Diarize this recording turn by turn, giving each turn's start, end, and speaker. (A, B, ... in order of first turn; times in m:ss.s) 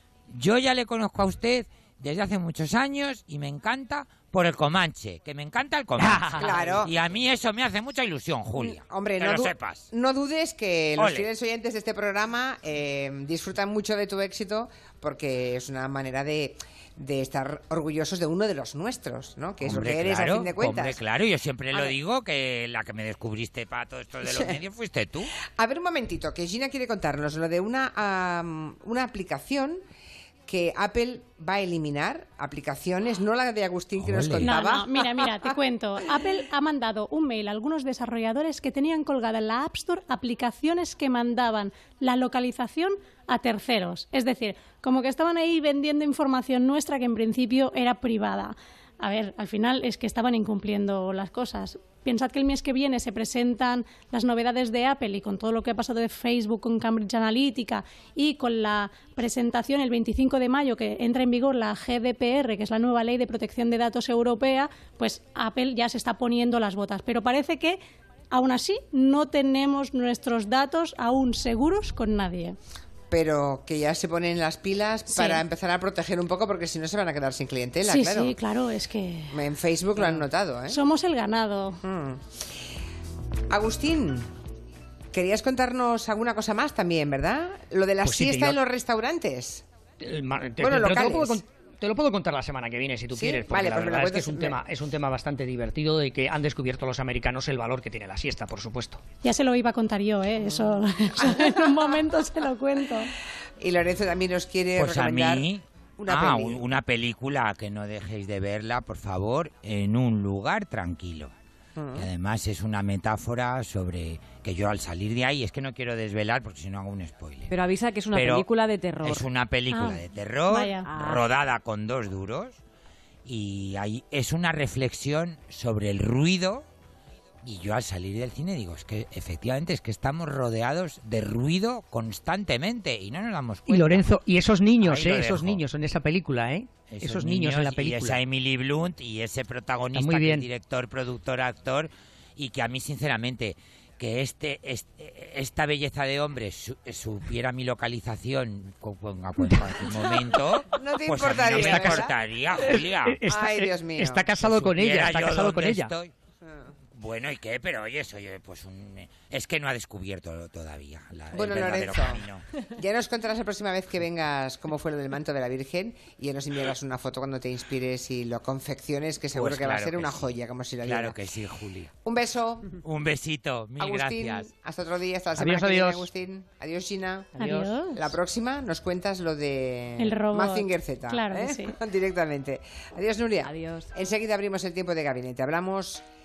0:00.3-0:09.9 A
0:06.0-0:06.8 B
0:06.3-0:06.9 C
0:08.6-0:21.0 C
0:11.0-0:11.3 A
0:19.6-0:25.3 A
0:24.2-0:24.6 C
0:25.6-0:29.8 C
0:30.5-0:35.5 C
0:34.0-0:34.6 A
0:34.4-1:07.8 D
1:08.3-1:12.6 D
1:13.1-1:18.3 C
1:15.1-1:15.4 D
1:17.8-1:19.4 D
1:19.3-1:20.8 C
1:20.7-1:21.8 D
1:21.8-1:22.3 C
1:23.5-1:24.3 C
1:25.1-1:29.6 C
1:28.0-1:28.6 B
1:30.0-1:39.0 B
1:30.6-1:31.4 C
1:33.1-1:34.6 C
1:39.2-1:43.1 D
1:40.4-1:42.0 C
1:43.6-1:45.4 C
1:44.7-1:51.3 A
1:46.0-1:46.6 C
1:51.8-1:52.0 C
1:51.9-1:57.5 A
1:57.5-1:59.2 E
1:58.1-1:58.4 A
1:59.0-2:02.6 A
1:59.7-2:00.8 D
2:00.8-2:01.2 E
2:03.2-2:06.6 A
2:07.4-2:14.1 A
2:13.7-2:18.2 B
2:14.8-2:15.6 A
2:16.9-2:33.2 A
2:19.9-2:20.4 B
2:30.7-2:32.1 C
2:31.5-2:32.0 B
2:32.6-2:35.9 B
2:33.3-2:34.3 C
2:34.4-2:36.1 A
2:36.4-2:36.7 C
2:36.9-2:42.4 A
2:41.3-2:42.2 C
2:42.8-2:51.2 C
2:49.3-2:51.9 A
2:52.0-2:52.8 C
2:52.8-2:54.5 A
2:53.8-3:06.0 C
2:55.3-2:56.1 B
2:57.4-2:58.1 D
2:57.4-2:57.7 B
3:00.0-3:01.7 D
3:03.4-3:03.9 E